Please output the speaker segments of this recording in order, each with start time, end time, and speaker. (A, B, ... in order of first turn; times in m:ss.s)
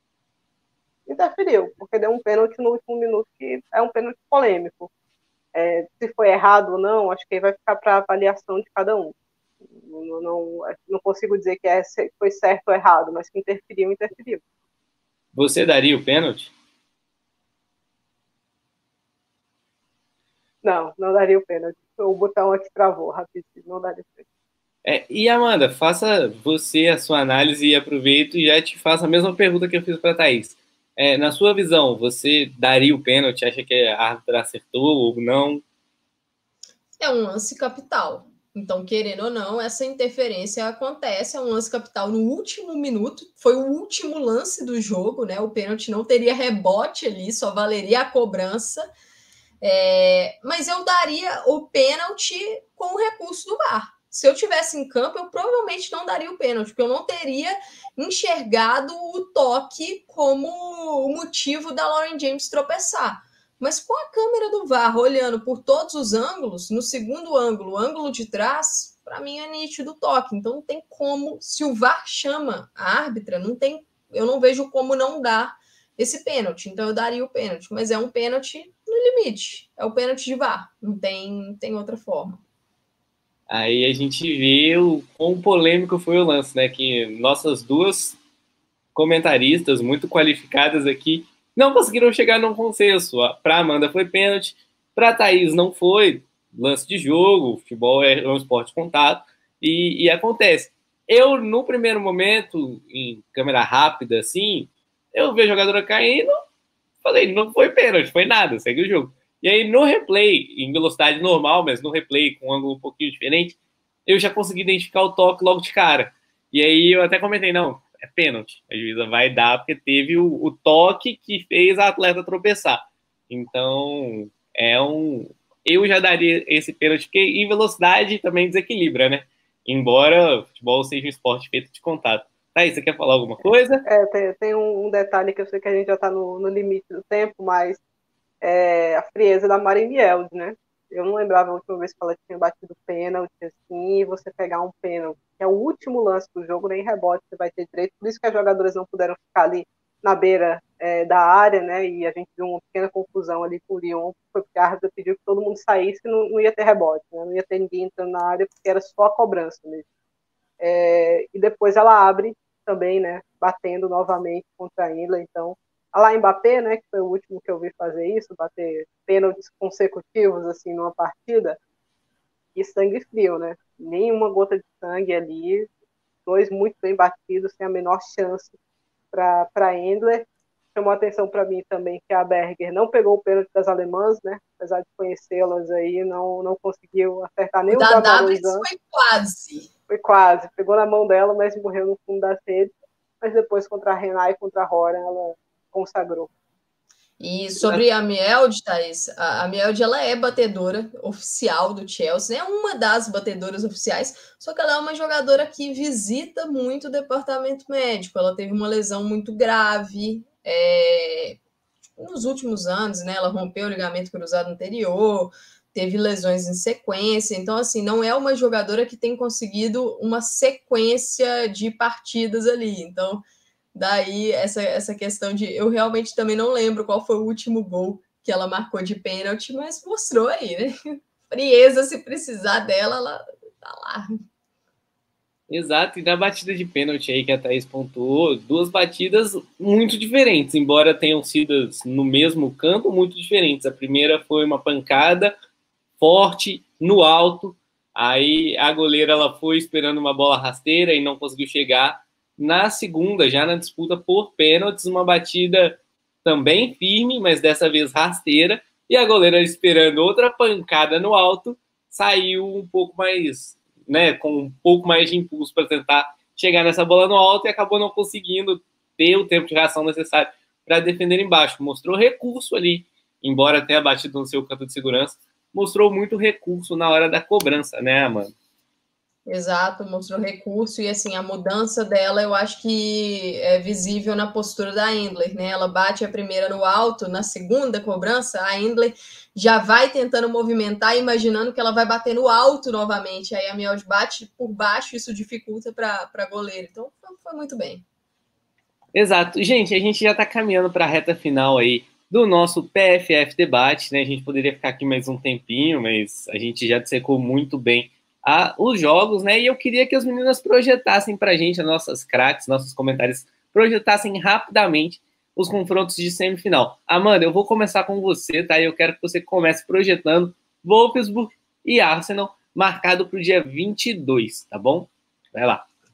0:01.1-0:04.9 A
0:05.5-0:09.2 A
0:09.7-0:14.4 A
0:15.4-0:16.5 B
0:20.6-0:24.2 A
0:24.8-0:35.6 B
0:37.0-0:48.9 C
0:49.6-1:22.4 C
1:23.5-1:28.2 B
1:29.0-1:46.4 B
1:47.0-2:13.8 B
2:13.9-2:17.8 A
2:18.4-2:39.9 A
2:40.6-2:51.6 A
2:52.6-2:55.7 A
2:56.3-2:58.6 A
2:59.1-3:08.6 A
3:07.7-3:09.7 C
3:09.9-3:16.3 A
3:17.2-3:31.4 C
3:32.0-3:54.1 C
3:55.5-4:05.3 B
4:06.0-4:38.3 B
4:39.3-4:57.8 C
4:58.9-5:25.7 B